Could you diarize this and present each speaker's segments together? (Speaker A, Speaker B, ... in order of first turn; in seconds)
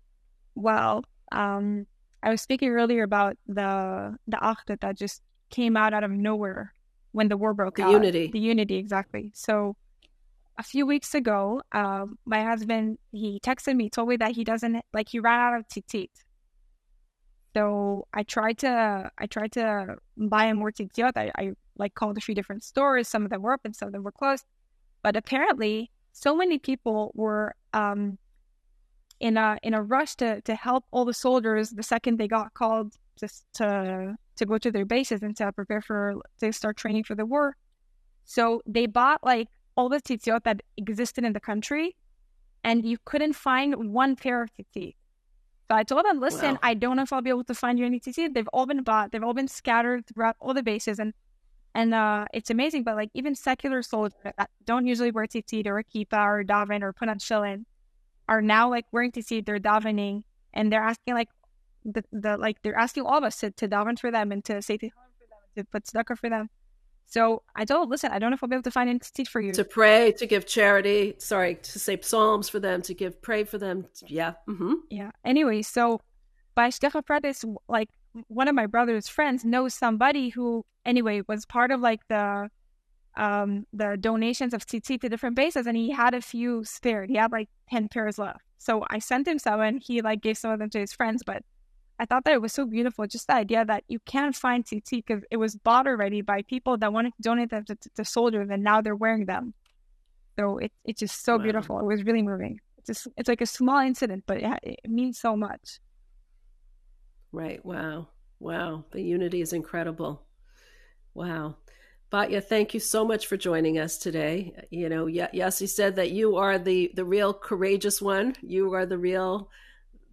Speaker A: 0.6-9.8, 10.6-16.2, 17.5-24.4, 25.0-28.2, 29.2-37.6, 38.3-42.0, 42.6-45.0, 45.7-51.1, 51.8-57.7, 58.3-61.3, 61.9-66.5, 67.1-69.6, 74.9-76.0, 76.5-82.5, 83.2-91.4, 92.0-99.5, 100.4-105.8
Speaker B: 7.8-8.3, 46.3-46.6, 69.5-74.8, 101.3-101.7, 107.3-110.2, 111.1-119.5